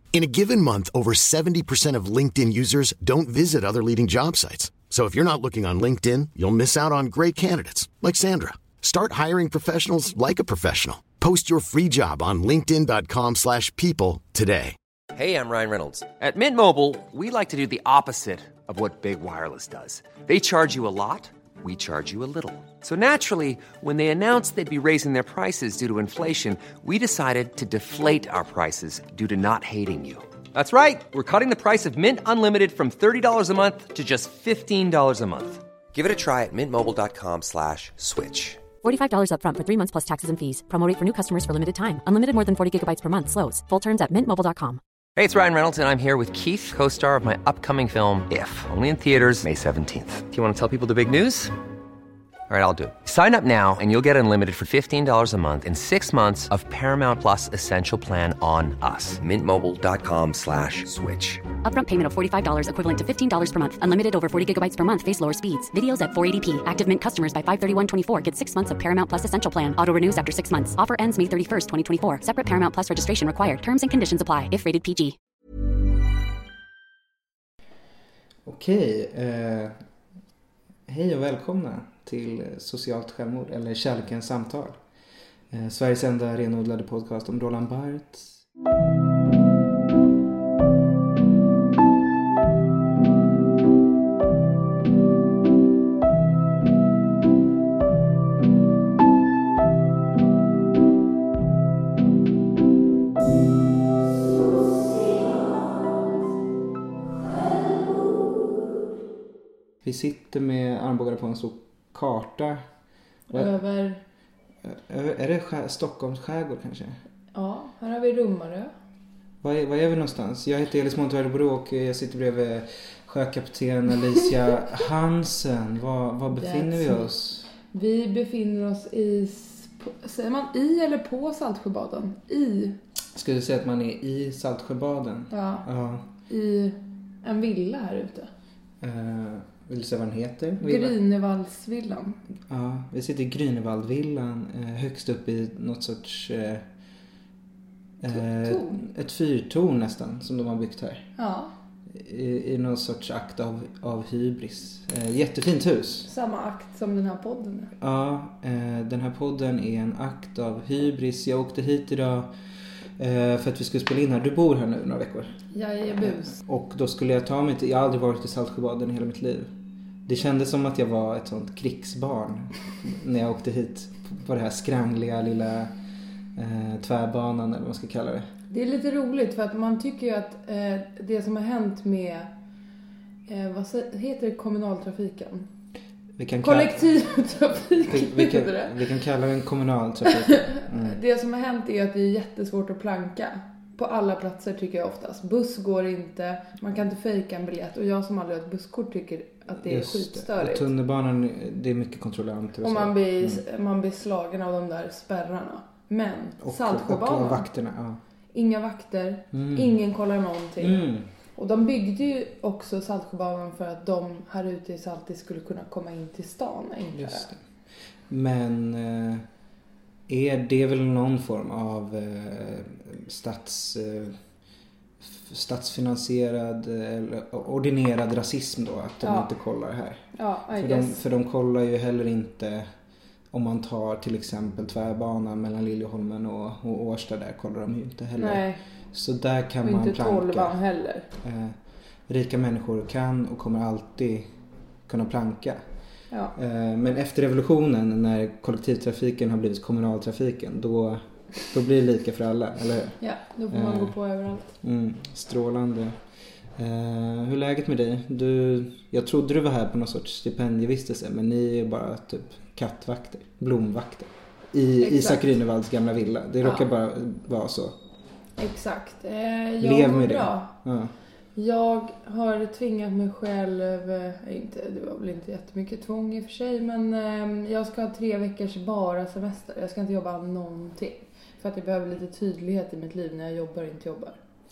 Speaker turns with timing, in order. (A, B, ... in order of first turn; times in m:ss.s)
0:00.1-0:14.8 A
0:15.1-0:38.6 B
0:38.8-0:44.8 C
0:45.2-0:51.5 B
0:52.5-1:01.5 B
1:01.6-1:15.2 C
1:18.5-1:19.8 D
1:20.9-1:24.8 D
1:25.5-1:28.4 D
1:49.8-1:52.7 D
1:53.3-1:54.0 E
1:54.6-1:57.0 D
1:57.3-1:58.7 E
1:59.4-2:07.5 D
2:06.3-2:07.1 E
2:07.7-2:12.8 E
2:13.2-2:16.1 D
2:15.3-2:15.7 E
2:16.3-2:18.3 E
2:18.8-2:21.0 D
2:20.6-2:22.2 E
2:22.5-2:26.7 D
2:28.0-2:31.1 D
2:28.1-2:28.8 E
2:31.2-2:31.5 E
2:31.9-2:36.1 D
2:36.1-2:37.7 E
2:37.8-2:42.3 D
2:43.0-2:45.3 D
2:45.5-2:46.4 E
2:46.0-2:49.5 D
2:50.1-2:55.7 D
2:56.4-2:58.3 D
2:58.5-3:02.3 E
3:03.3-3:05.5 E
3:06.2-3:06.9 D
3:06.4-3:08.8 E
3:07.9-3:11.0 D
3:10.3-3:20.7 E
3:19.6-3:23.4 D
3:22.6-3:27.5 E
3:26.4-3:28.0 D
3:28.3-3:30.8 E
3:29.3-3:29.8 D
3:30.6-3:31.1 D
3:31.4-3:37.3 E
3:36.9-3:37.4 D
3:38.1-3:39.2 D
3:40.1-3:44.2 D
3:45.0-3:50.0 D
3:49.0-3:49.3 E
3:50.2-3:51.0 E
3:50.6-3:52.7 D
3:53.3-4:00.6 D
3:58.2-3:58.6 E
3:59.6-4:01.1 E
4:01.2-4:01.6 D
4:02.1-4:04.3 D
4:04.9-4:05.6 D
4:06.4-4:13.0 D
4:13.0-4:14.6 E
4:13.5-4:14.0 D
4:14.6-4:16.0 D
4:16.6-4:27.8 D
4:24.8-4:25.3 E
4:28.4-4:30.5 E
4:29.6-4:30.9 D
4:31.4-4:44.2 E